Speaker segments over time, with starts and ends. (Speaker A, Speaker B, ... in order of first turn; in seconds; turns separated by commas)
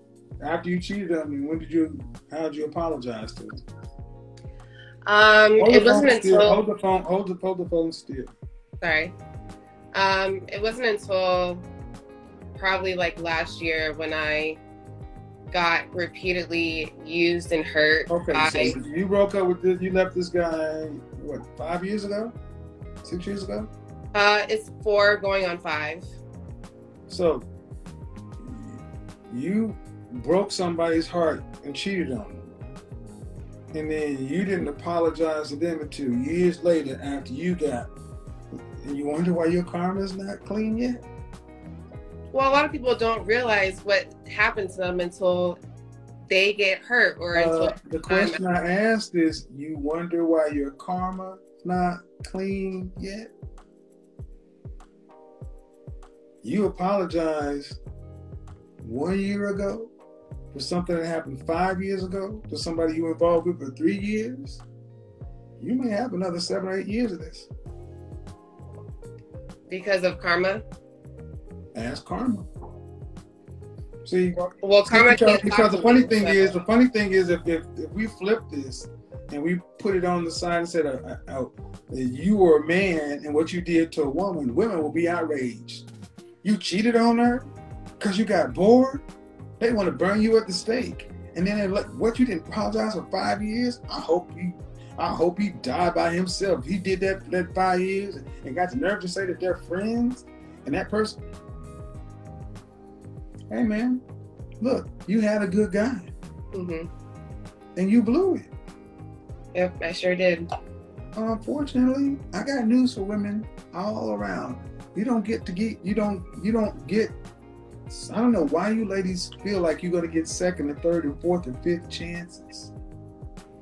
Speaker A: 0.4-3.6, Speaker B: 5.1-6.6, Speaker A: 5.6-8.3, Speaker B: 8.8-9.1, Speaker B: 9.9-11.7, Speaker B: 12.6-14.6, Speaker B: 15.5-18.8, Speaker A: 18.1-22.4, Speaker A: 23.0-23.7, Speaker B: 24.1-26.1, Speaker A: 27.1-27.5, Speaker A: 28.4-32.5, Speaker A: 33.7-37.9, Speaker A: 38.8-41.0, Speaker B: 42.3-45.6, Speaker B: 46.3-48.4, Speaker A: 47.3-53.3, Speaker A: 56.4-57.8, Speaker A: 58.8-59.9, Speaker A: 60.5-64.6, Speaker A: 65.6-67.5, Speaker B: 69.7-70.6, Speaker A: 71.7-72.5, Speaker A: 74.0-85.9, Speaker B: 74.6-76.5, Speaker A: 86.4-87.5, Speaker A: 88.0-89.0, Speaker A: 89.6-101.2, Speaker A: 103.5-104.0, Speaker A: 104.6-106.1, Speaker B: 106.5-106.9, Speaker A: 107.8-108.5, Speaker B: 109.5-110.5, Speaker A: 111.2-117.1, Speaker A: 117.9-122.7